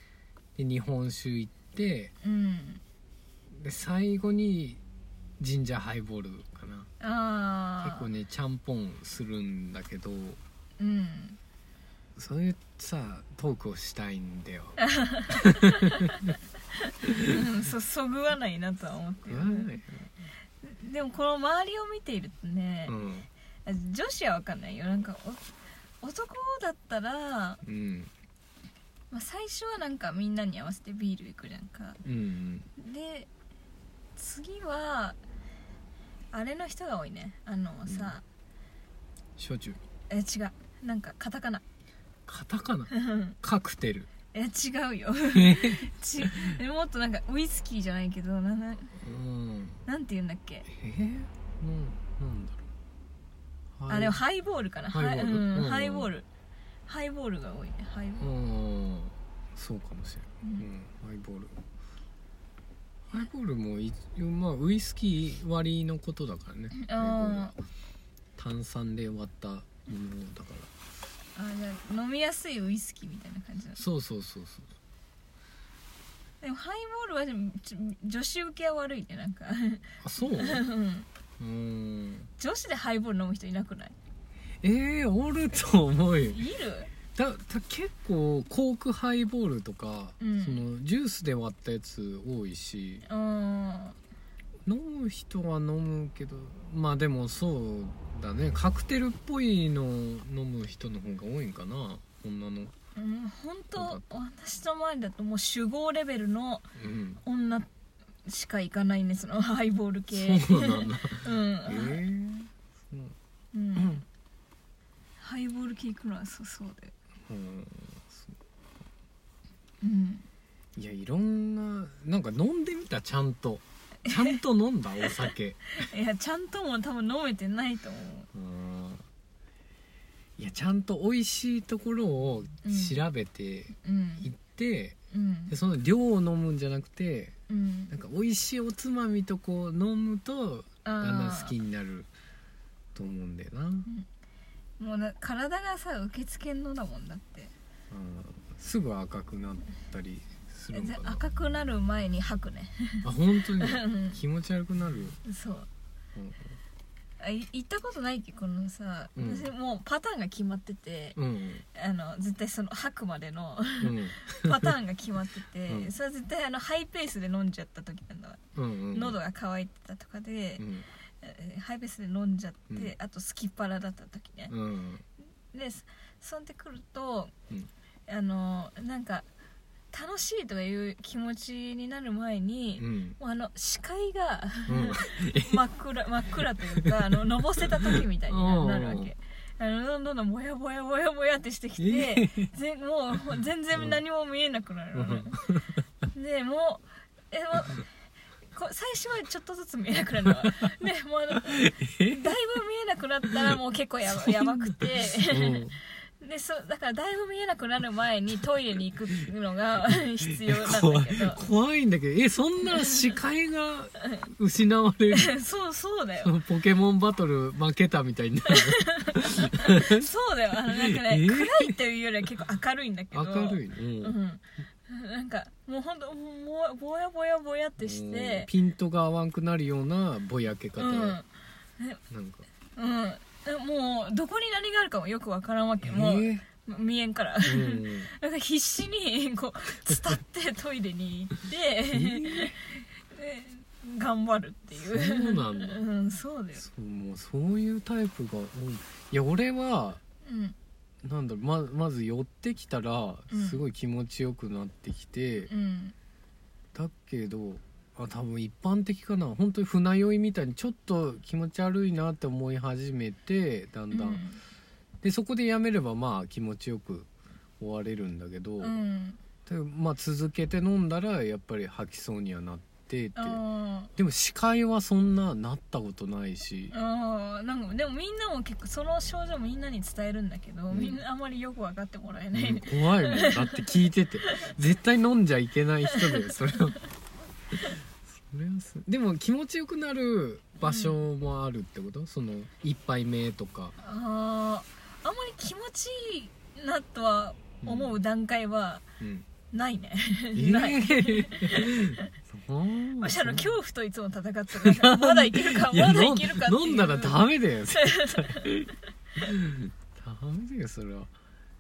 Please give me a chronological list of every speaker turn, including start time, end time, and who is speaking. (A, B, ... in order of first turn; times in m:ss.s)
0:00.6-0:02.1 A
0:02.2-0:02.8 B
0:03.6-0:04.8 A
0:05.4-0:06.9 A
0:07.0-0:08.1 B
0:07.8-0:10.4 A
0:10.8-0:11.4 B
0:12.2-0:14.8 A
0:14.8-0:16.1 B
0:15.3-0:16.3 A
0:16.8-0:19.7 B
0:19.3-0:20.1 A
0:20.6-0:23.0 B
0:22.9-0:23.3 A
0:23.7-0:25.4 B
0:26.0-0:27.6 B
0:27.6-0:28.1 A
0:29.1-0:32.0 B
0:32.0-0:32.7 A
0:32.8-0:33.3 B
0:34.2-0:35.2 B
0:36.3-0:38.2 B
0:37.9-0:38.2 A
0:39.4-0:39.8 A
0:40.1-0:41.6 B
0:42.3-0:44.1 A
0:42.9-0:43.4 B
0:44.3-0:49.0 B
0:45.3-0:46.6 A
0:49.0-0:49.8 A
0:49.9-0:50.7 B
0:50.7-0:52.7 A
0:53.8-0:54.2 A
0:53.9-0:56.3 B
0:54.9-0:56.1 A
0:56.9-0:58.3 B
0:58.2-1:01.6 A
1:03.1-1:07.5 A
1:06.7-1:07.6 B
1:08.4-1:10.7 A
1:11.4-1:13.8 B
1:13.8-1:14.7 A
1:16.4-1:21.0 B
1:20.0-1:20.6 A
1:21.4-1:22.3 A
1:22.4-1:24.0 B
1:24.6-1:26.4 A
1:26.3-1:26.9 B
1:27.1-1:33.0 A
1:30.2-1:30.6 B
1:33.0-1:34.0 B
1:34.7-1:42.7 A
1:43.0-1:46.7 B
1:43.8-1:44.0 A
1:46.8-1:47.2 A
1:47.2-1:47.7 B
1:48.2-1:52.0 B
1:50.1-1:53.1 A
1:53.5-1:54.0 B
1:53.8-1:54.0 A
1:55.2-1:56.9 B
1:57.3-1:58.4 A
1:59.8-2:00.3 B
2:00.8-2:05.7 A
2:05.8-2:08.3 B
2:08.3-2:09.0 A
2:10.4-2:15.0 A
2:12.6-2:13.0 B
2:13.8-2:14.3 B
2:15.1-2:15.5 B
2:15.5-2:17.3 A
2:17.5-2:17.9 B
2:17.9-2:22.1 A
2:20.8-2:21.5 B
2:22.9-2:23.9 A
2:24.8-2:27.5 B
2:27.9-2:31.2 A
2:30.7-2:33.1 B
2:33.0-2:35.2 A
2:33.6-2:34.2 B
2:35.2-2:35.7 B
2:36.2-2:36.6 A
2:37.2-2:41.2 B
2:39.2-2:39.5 A
2:41.2-2:41.6 A
2:41.7-2:48.4 B
2:43.8-2:44.7 A
2:48.6-2:49.2 A
2:48.9-2:50.6 B
2:50.6-2:50.9 A
2:51.2-2:54.5 B
2:54.5-2:55.0 A
2:55.5-2:57.3 B
2:58.1-2:59.3 B
2:59.9-3:15.4 B
3:02.8-3:03.2 A
3:04.7-3:05.6 A
3:07.9-3:09.1 A
3:11.8-3:12.5 A
3:14.9-3:15.8 A
3:16.1-3:17.9 B
3:18.5-3:25.6 B
3:21.5-3:22.2 A
3:25.3-3:25.8 A
3:26.2-3:31.4 B
3:30.4-3:35.4 A
3:35.1-3:36.3 B
3:36.2-3:39.9 A
3:38.5-3:48.5 B
3:40.8-3:41.8 A
3:43.1-3:44.2 A
3:47.8-3:51.2 A
3:50.8-3:51.2 B
3:52.1-3:52.5 A
3:52.8-4:06.6 B
3:55.8-3:56.4 A
3:57.4-3:58.1 A
4:01.9-4:02.5 A
4:04.8-4:05.8 A
4:06.6-4:10.0 A
4:10.2-4:10.6 B
4:11.0-4:15.5 A
4:13.3-4:13.6 B
4:15.5-4:15.9 B
4:16.7-4:24.2 A
4:23.9-4:24.4 B
4:25.0-4:27.1 A
4:27.6-4:28.8 A
4:28.6-4:29.2 B
4:29.5-4:33.4 A
4:33.2-4:33.9 B
4:33.9-4:36.8 A
4:36.7-4:43.6 B
4:40.7-4:41.0 A
4:42.3-4:46.8 A
4:48.0-4:53.8 A
4:50.6-4:51.0 B
4:53.8-4:58.8 B
4:57.6-4:58.0 A
4:59.0-4:59.2 A
4:59.5-5:02.0 B
5:00.4-5:03.5 A
5:03.0-5:08.5 B
5:04.6-5:11.1 A